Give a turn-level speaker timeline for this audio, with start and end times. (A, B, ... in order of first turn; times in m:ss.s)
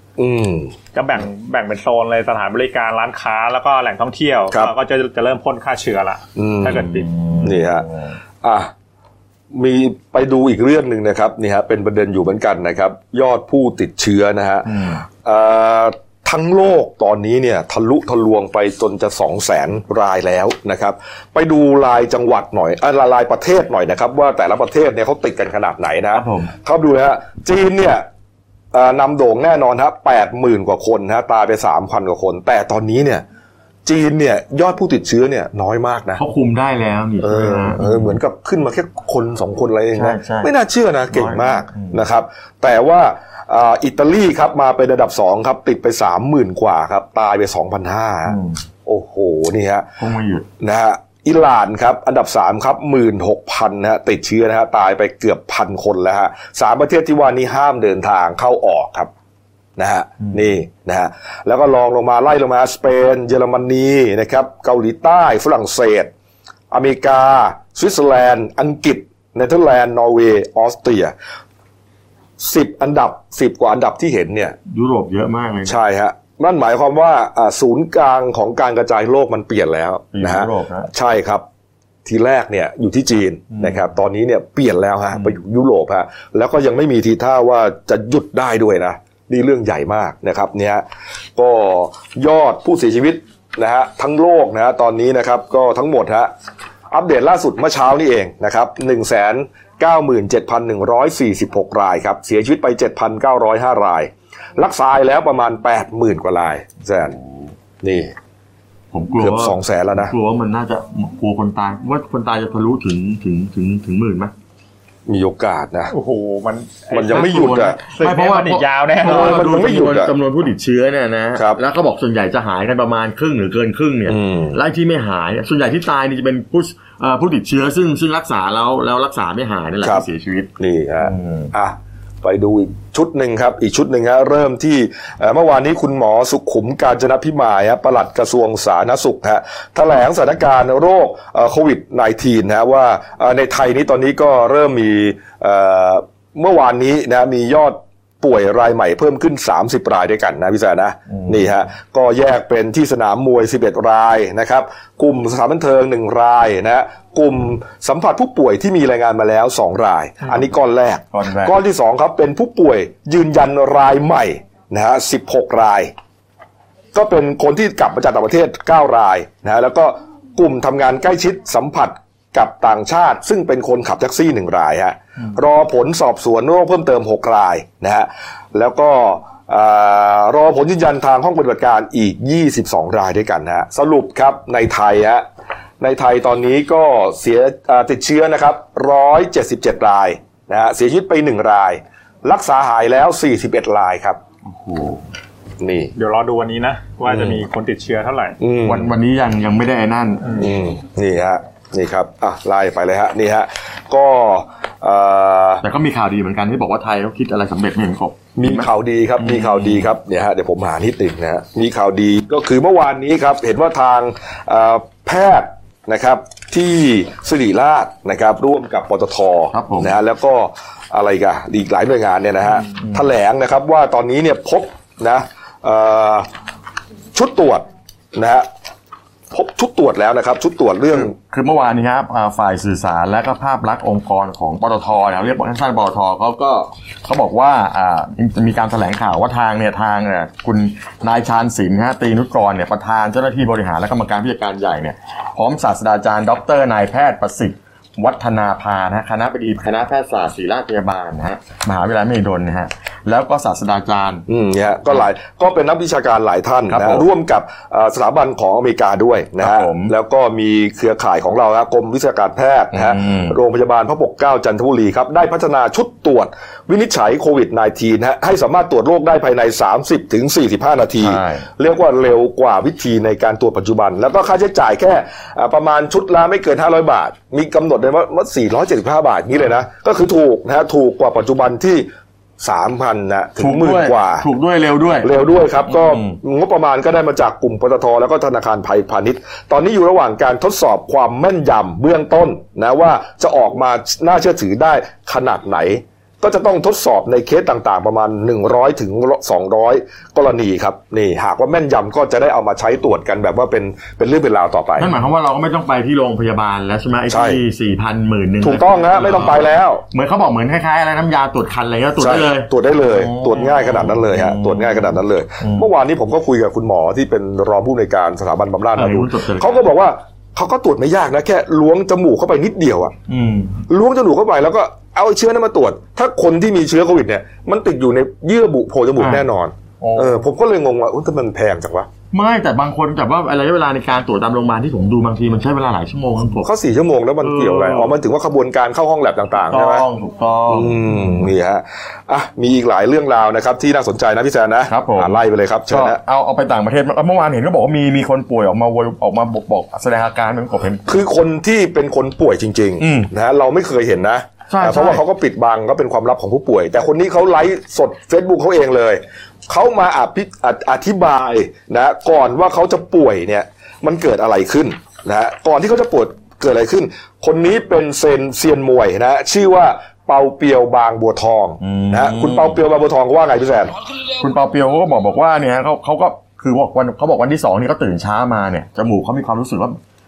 0:00.2-0:00.7 A
0:00.9-0:07.1 B
0:06.4-0:07.9 A
0:06.8-0:08.1 C
0:08.4-0:08.7 A
0:09.5-0:28.1 A
0:14.6-0:15.0 C
0:26.1-0:26.5 C
0:28.7-0:33.2 A
0:33.9-0:36.2 A
0:36.2-0:38.2 C
0:37.2-0:49.9 A
0:40.0-0:40.5 C
0:41.1-0:42.0 C
0:48.3-0:48.6 C
0:50.0-0:50.5 C
0:50.6-0:59.1 A
0:59.8-1:06.1 A
1:06.7-1:11.1 A
1:12.4-1:14.6 A
1:14.7-1:15.8 C
1:15.6-1:21.4 A
1:20.1-1:20.9 C
1:22.0-1:30.8 A
1:23.5-1:23.8 C
1:31.4-1:36.3 A
1:36.9-1:47.2 A
1:47.8-1:48.1 A
1:48.9-1:54.3 C
1:49.2-1:50.1 A
1:55.1-1:55.9 A
1:55.9-1:59.4 B
1:56.9-1:57.8 A
1:57.1-2:11.5 C
1:59.0-2:00.1 A
2:01.4-2:01.6 A
2:04.1-2:04.5 A
2:10.6-2:45.9 A
2:31.2-2:31.4 C
2:41.1-2:41.5 C
2:46.9-3:05.2 A
3:05.8-3:14.2 A
3:14.4-3:15.0 C
3:15.6-3:15.9 A
3:16.0-3:18.4 B
3:18.4-3:18.9 A
3:18.6-3:20.4 C
3:20.4-3:25.6 A
3:25.6-3:28.7 C
3:28.4-3:46.3 A
3:29.2-3:29.9 C
3:39.5-3:39.9 C
3:42.6-3:43.0 C
3:47.1-3:48.5 A
3:49.3-3:51.1 A
3:50.9-4:14.2 C
4:14.3-4:44.2 A
4:16.7-4:17.0 C
4:19.4-4:19.9 C
4:22.7-4:23.4 C
4:31.0-4:31.4 C
4:43.4-4:45.1 C
4:45.0-5:04.9 A
4:45.7-4:46.2 C
5:04.8-5:15.7 C
5:07.1-5:07.4 A
5:08.4-5:09.8 A
5:12.0-5:23.0 A
5:18.8-5:19.6 C
5:23.1-5:23.6 C
5:23.7-5:31.9 A
5:29.0-5:29.3 C
5:29.8-5:30.2 C
5:32.1-5:36.5 C
5:36.4-5:39.8 A
5:37.2-5:38.0 C
5:39.5-5:41.3 C
5:40.5-5:46.0 A
5:44.7-5:50.9 C
5:50.9-6:13.7 A
5:52.8-5:53.1 C
5:54.5-5:55.0 C
6:11.6-6:12.6 C
6:14.1-6:19.8 C